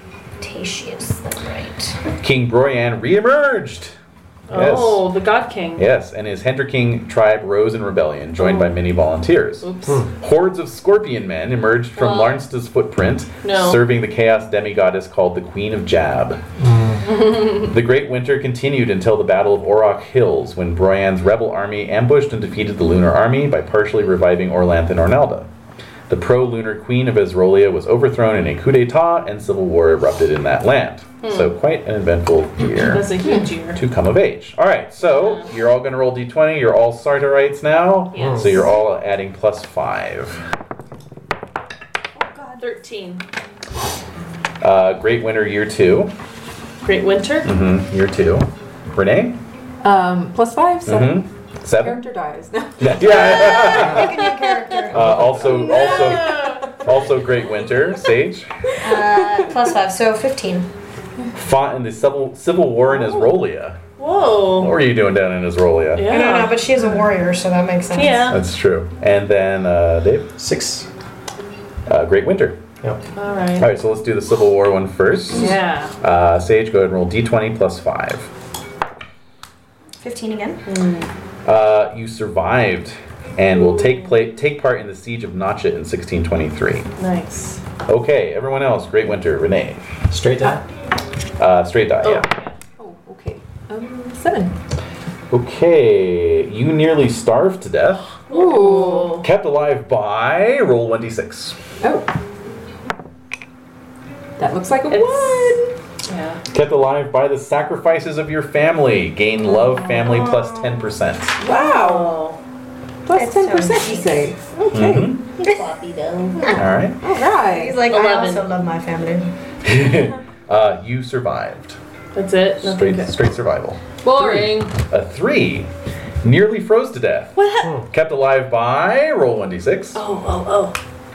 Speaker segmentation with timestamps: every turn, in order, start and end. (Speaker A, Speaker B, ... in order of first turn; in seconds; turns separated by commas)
Speaker A: 0.4-2.0, Speaker B: 2.2-3.9, Speaker B: 4.5-5.0, Speaker C: 4.5-5.8, Speaker B: 5.8-9.7, Speaker C: 8.4-8.8, Speaker C: 9.6-10.0, Speaker B: 10.2-16.4, Speaker C: 12.0-12.4, Speaker C: 13.4-13.8, Speaker D: 16.6-17.0, Speaker C: 17.0-17.7, Speaker B: 17.4-25.5, Speaker B: 26.1-33.1, Speaker C: 31.2-31.5, Speaker C: 32.7-33.8, Speaker B: 33.7-40.4, Speaker C: 38.1-38.7, Speaker D: 38.2-38.5, Speaker E: 42.2-42.6, Speaker C: 42.6-43.2, Speaker B: 44.6-46.1, Speaker C: 46.8-47.5, Speaker B: 47.4-49.4, Speaker E: 49.8-53.6, Speaker B: 50.8-52.0, Speaker B: 52.8-54.2, Speaker C: 53.0-54.8, Speaker A: 53.2-55.1, Speaker D: 53.6-54.0, Speaker D: 54.9-55.7, Speaker B: 54.9-58.5, Speaker C: 55.4-56.8, Speaker E: 55.5-56.7, Speaker E: 58.8-59.5, Speaker A: 58.8-60.7, Speaker B: 61.3-63.8, Speaker C: 62.9-63.3, Speaker C: 64.0-64.7, Speaker B: 64.6-66.0, Speaker C: 65.9-66.6, Speaker A: 66.1-68.4, Speaker C: 67.9-68.4, Speaker B: 68.3-70.3, Speaker D: 70.4-70.9, Speaker B: 71.9-72.6, Speaker C: 73.1-73.7, Speaker B: 73.6-78.3, Speaker C: 75.3-75.9, Speaker A: 80.0-80.6, Speaker C: 80.7-81.1, Speaker B: 81.4-86.9, Speaker C: 83.5-84.1, Speaker C: 87.0-87.6, Speaker B: 87.9-89.8, Speaker D: 90.1-90.6, Speaker B: 91.4-92.3, Speaker C: 92.0-92.5, Speaker E: 92.8-94.5, Speaker B: 95.3-98.1, Speaker C: 98.3-99.2, Speaker E: 98.3-99.2, Speaker B: 99.2-101.5, Speaker E: 101.8-102.1, Speaker E: 104.4-105.7, Speaker C: 104.9-106.4, Speaker B: 106.5-111.4, Speaker A: 110.0-110.7, Speaker E: 111.4-112.2, Speaker C: 111.4-112.4, Speaker E: 113.0-115.2, Speaker A: 113.1-114.3, Speaker B: 114.7-115.3, Speaker C: 115.4-116.4, Speaker A: 115.4-115.7, Speaker E: 116.3-117.8, Speaker B: 116.5-117.0, Speaker A: 117.4-119.3, Speaker C: 117.9-118.5, Speaker B: 119.6-121.8, Speaker C: 122.1-123.1, Speaker B: 122.6-125.7, Speaker C: 124.0-124.7, Speaker B: 126.2-127.4, Speaker C: 127.3-127.8, Speaker B: 127.9-130.0, Speaker C: 129.9-130.8